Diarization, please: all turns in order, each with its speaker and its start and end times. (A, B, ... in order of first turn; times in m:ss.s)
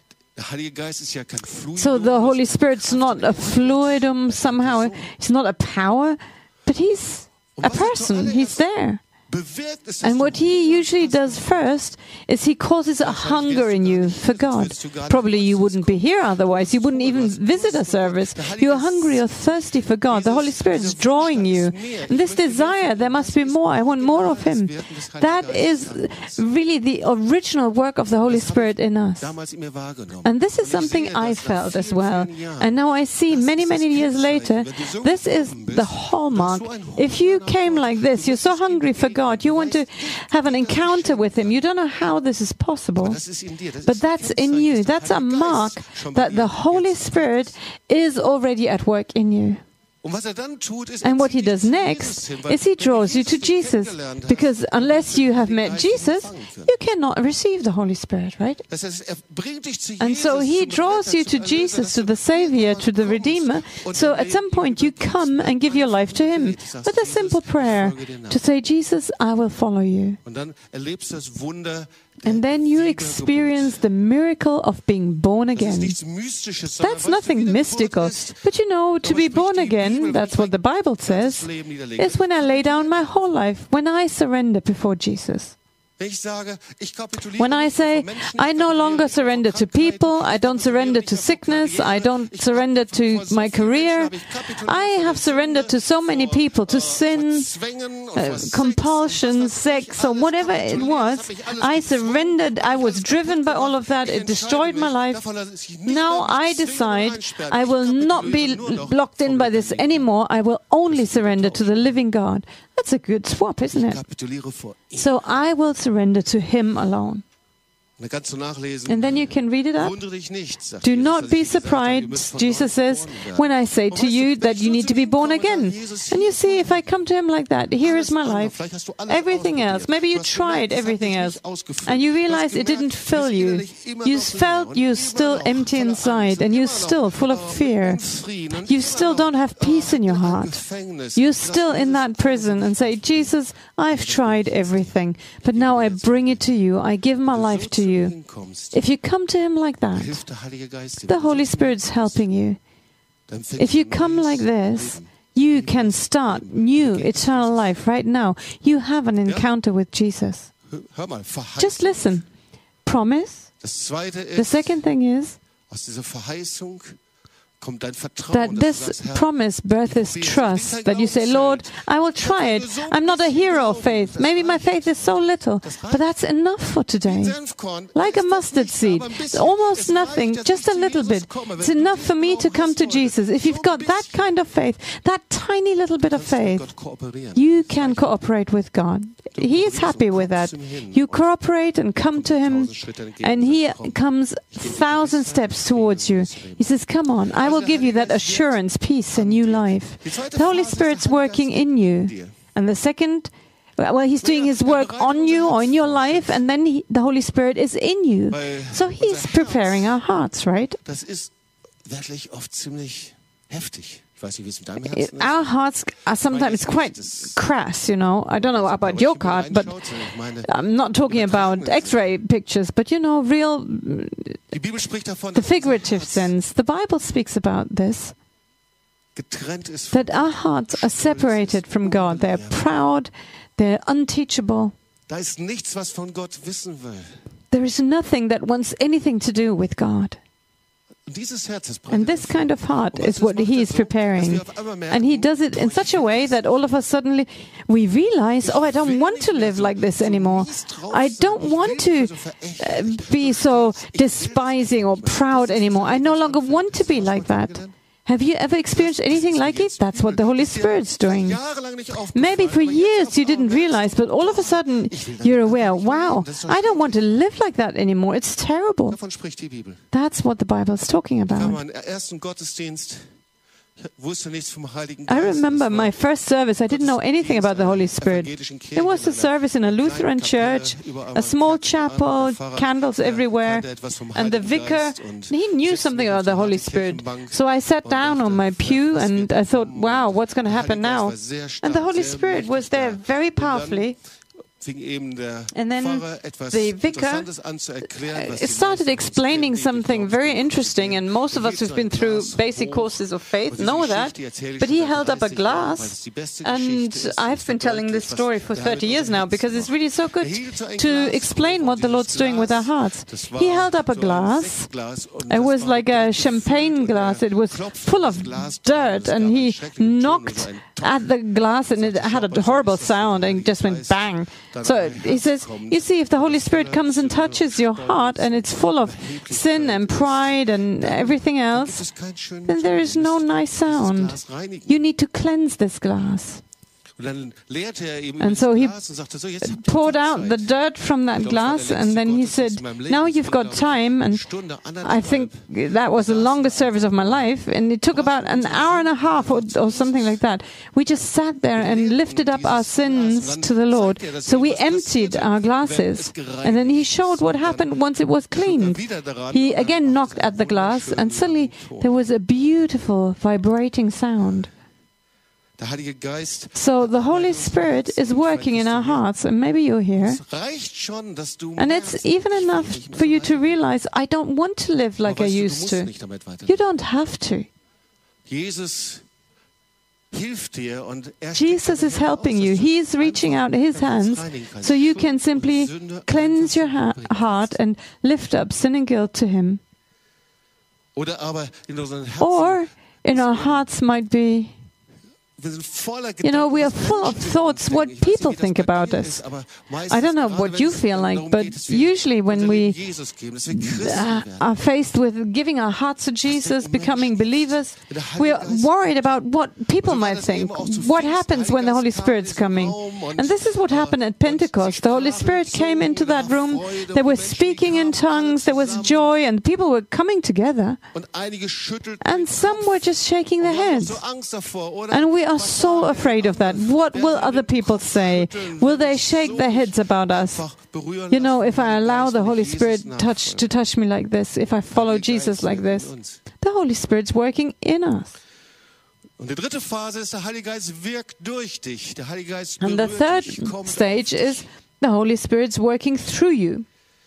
0:00.4-0:05.1 A
0:01.8-0:09.0 B
0:07.6-0:08.6 A
0:09.3-0:11.7 A
0:10.0-0:29.3 B
0:13.0-0:19.4 A
0:20.1-0:26.4 A
0:28.2-0:32.7 A
0:30.2-0:43.2 B
0:33.3-0:41.6 A
0:43.0-0:47.5 A
0:43.8-0:49.6 B
0:50.0-0:56.8 A
0:51.0-0:58.6 B
0:58.7-1:08.4 A
1:00.0-1:10.2 B
1:10.2-1:13.8 A
1:12.2-1:16.0 B
1:15.6-1:18.4 A
1:16.8-1:25.6 B
1:19.0-1:23.0 A
1:26.0-1:50.1 A
1:27.4-1:37.5 B
1:38.1-1:45.2 B
1:45.8-1:54.0 B
1:50.9-1:52.0 A
1:53.7-1:55.1 A
1:55.0-1:57.2 B
1:58.0-2:06.9 A
1:58.9-2:00.0 B
2:00.8-2:08.6 B
2:07.8-2:23.4 A
2:09.1-2:18.0 B
2:18.6-2:20.6 B
2:21.2-2:28.1 B
2:23.9-2:26.5 A
2:27.3-2:28.8 A
2:28.7-2:30.2 B
2:29.9-2:32.3 A
2:31.1-2:32.6 B
2:33.3-2:37.7 A
2:33.6-2:40.5 B
2:39.3-2:39.5 A
2:40.7-2:42.1 A
2:41.6-2:42.3 B
2:42.8-2:43.5 B
2:43.6-2:44.8 A
2:44.4-2:45.4 B
2:45.7-2:47.0 A
2:47.6-2:49.3 A
2:48.3-2:57.4 B
2:49.8-2:56.0 A
2:57.0-3:04.3 A
2:57.9-3:06.7 B
3:06.1-3:08.1 A
3:07.3-3:30.8 B
3:09.3-3:11.3 A
3:12.1-3:14.0 A
3:14.6-3:16.7 A
3:17.2-3:18.6 A
3:19.1-3:22.4 A
3:24.2-3:26.4 A
3:28.3-3:29.9 A
3:30.8-3:31.3 A
3:31.8-3:35.5 A
3:34.9-3:39.8 B
3:36.2-3:37.4 A
3:38.4-3:40.5 A
3:40.4-3:44.4 B
3:41.1-3:42.0 A
3:44.5-3:46.3 A
3:45.3-3:48.2 B
3:49.2-3:52.8 A
3:49.9-3:54.8 B
3:55.1-3:57.2 A
3:57.5-4:00.2 B
4:01.1-4:06.6 A
4:01.9-4:21.4 B
4:08.4-4:17.7 A
4:18.7-4:27.1 A
4:22.1-4:29.0 B
4:28.9-4:29.8 A
4:29.9-4:31.6 B
4:31.3-4:33.2 A
4:33.8-4:36.0 A
4:35.1-4:54.0 B
4:36.7-4:54.0 A
4:54.6-5:21.1 A
4:55.5-4:57.3 B
4:58.1-5:14.7 B
5:15.3-5:31.8 B
5:21.7-5:34.8 A
5:32.4-5:36.4 B
5:37.0-5:40.5 A
5:38.2-5:38.8 B
5:39.4-5:44.2 B
5:41.1-5:47.3 A
5:44.8-6:04.5 B
5:47.9-5:50.1 A
5:51.6-5:57.8 A
5:58.3-6:01.9 A
6:05.6-6:09.1 A
6:06.6-6:10.2 B
6:10.0-6:13.6 A
6:11.6-6:15.9 B
6:15.0-6:16.6 A
6:16.5-6:17.5 B
6:18.3-6:19.1 A
6:20.1-6:27.6 A
6:21.4-6:29.6 B
6:31.0-6:33.7 A
6:32.2-6:34.6 B
6:35.4-6:44.5 A
6:36.2-6:39.2 B
6:39.9-6:42.8 B
6:43.5-7:00.8 B
6:46.2-6:48.7 A
6:49.8-6:59.1 A
7:00.9-7:13.5 A
7:02.0-7:04.0 B
7:04.9-7:10.4 B
7:11.1-7:18.1 B
7:14.7-7:16.2 A
7:19.2-7:24.4 A
7:22.6-7:26.7 B